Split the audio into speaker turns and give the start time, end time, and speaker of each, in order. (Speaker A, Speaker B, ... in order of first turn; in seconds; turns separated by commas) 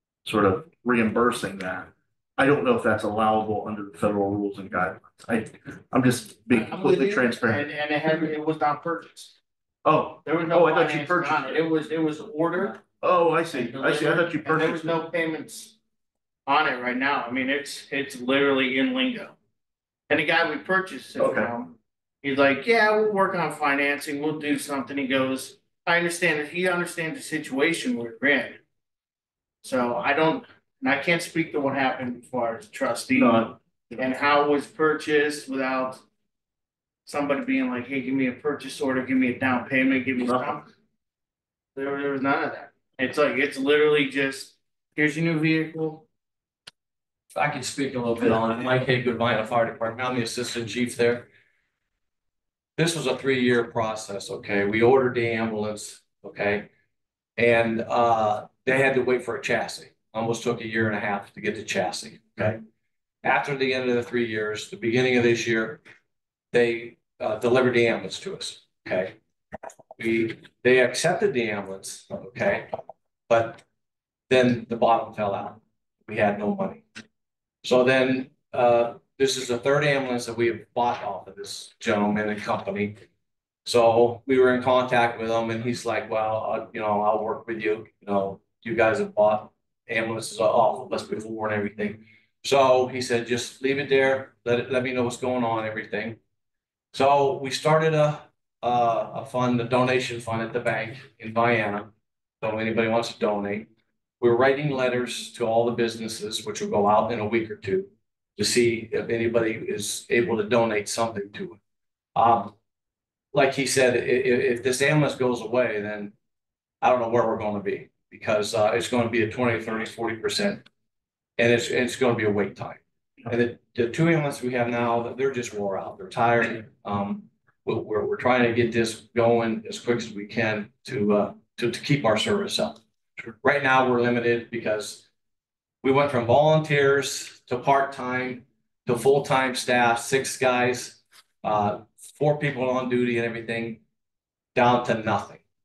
Speaker A: 0.2-7.7, Speaker B: 6.5-9.3, Speaker A: 9.8-11.8, Speaker B: 10.2-12.8, Speaker A: 13.0-15.0, Speaker B: 13.5-15.7, Speaker B: 16.4-19.3, Speaker B: 20.1-28.6, Speaker A: 21.2-21.5, Speaker B: 29.6-36.0, Speaker A: 33.1-34.2, Speaker B: 37.0-40.6, Speaker A: 40.2-40.6, Speaker B: 41.7-46.0, Speaker C: 47.3-51.3, Speaker C: 52.8-56.7, Speaker C: 57.4-62.6, Speaker C: 63.2-65.8, Speaker C: 66.5-69.1, Speaker C: 70.0-72.7, Speaker C: 73.3-73.6, Speaker C: 74.3-76.8, Speaker C: 77.6-83.0, Speaker C: 83.6-96.2, Speaker C: 96.9-103.7, Speaker C: 104.2-111.6, Speaker C: 112.1-112.5, Speaker C: 113.3-116.1, Speaker C: 116.8-120.6, Speaker C: 121.4-132.8, Speaker C: 133.4-135.0, Speaker C: 135.8-143.8, Speaker C: 144.5-145.4